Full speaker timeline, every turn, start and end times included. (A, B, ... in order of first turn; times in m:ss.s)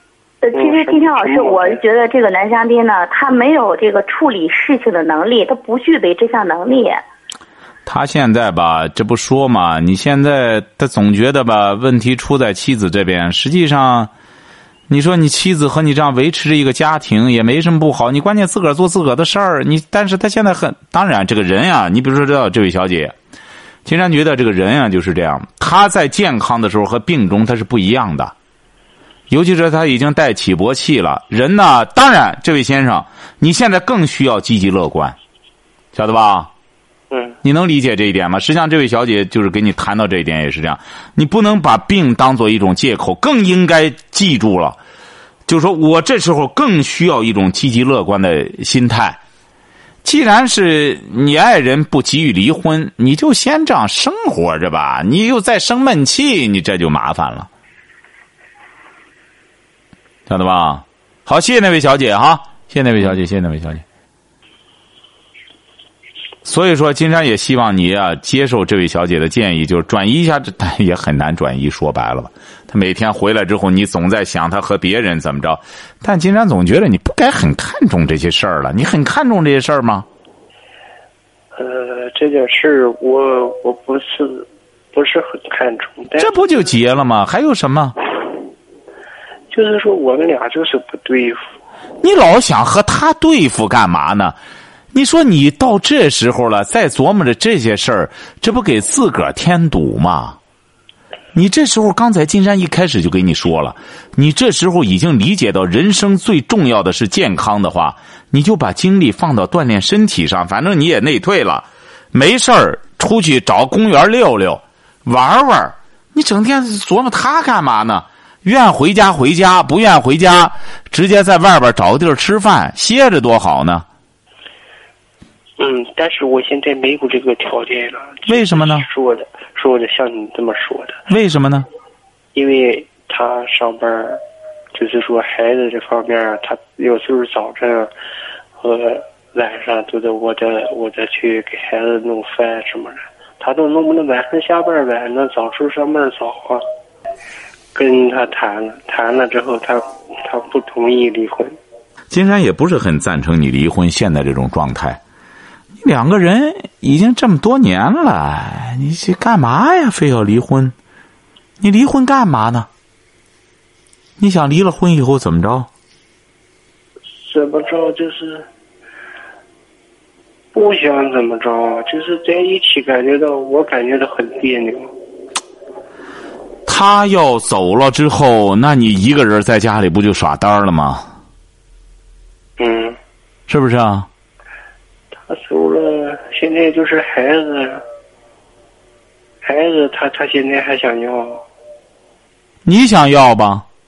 0:00.4-0:07.0 A
0:00.5-0:01.8 B
0:07.8-0:14.1 C
0:14.9-0:23.1 C
0:23.8-0:28.3 C
0:29.3-0:35.2 C
0:35.9-0:36.5 C
0:37.1-0:37.4 B
0:37.4-0:44.8 C
0:45.5-0:49.2 C
0:50.0-0:57.5 C
1:00.3-1:03.8 C
1:06.4-1:20.1 C
1:21.5-1:26.5 B
1:26.2-1:28.0 C
1:29.5-1:31.4 B
1:32.0-1:34.4 C
1:34.9-1:40.4 C
1:41.3-2:03.8 C
2:05.6-2:11.0 B
2:08.3-2:08.9 C
2:11.1-2:11.7 C
2:12.3-2:14.2 B
2:14.7-2:17.9 B
2:18.6-2:26.6 B
2:27.7-2:31.6 B
2:32.1-2:35.0 C
2:35.8-2:40.7 C
2:41.6-2:42.7 C
2:44.2-2:45.7 C
2:47.1-2:48.5 B
2:50.5-2:54.9 B
2:56.6-3:01.1 C
3:02.6-3:03.0 B
3:03.5-3:04.1 C
3:05.3-3:07.8 B
3:09.4-3:11.4 B
3:12.6-3:13.6 C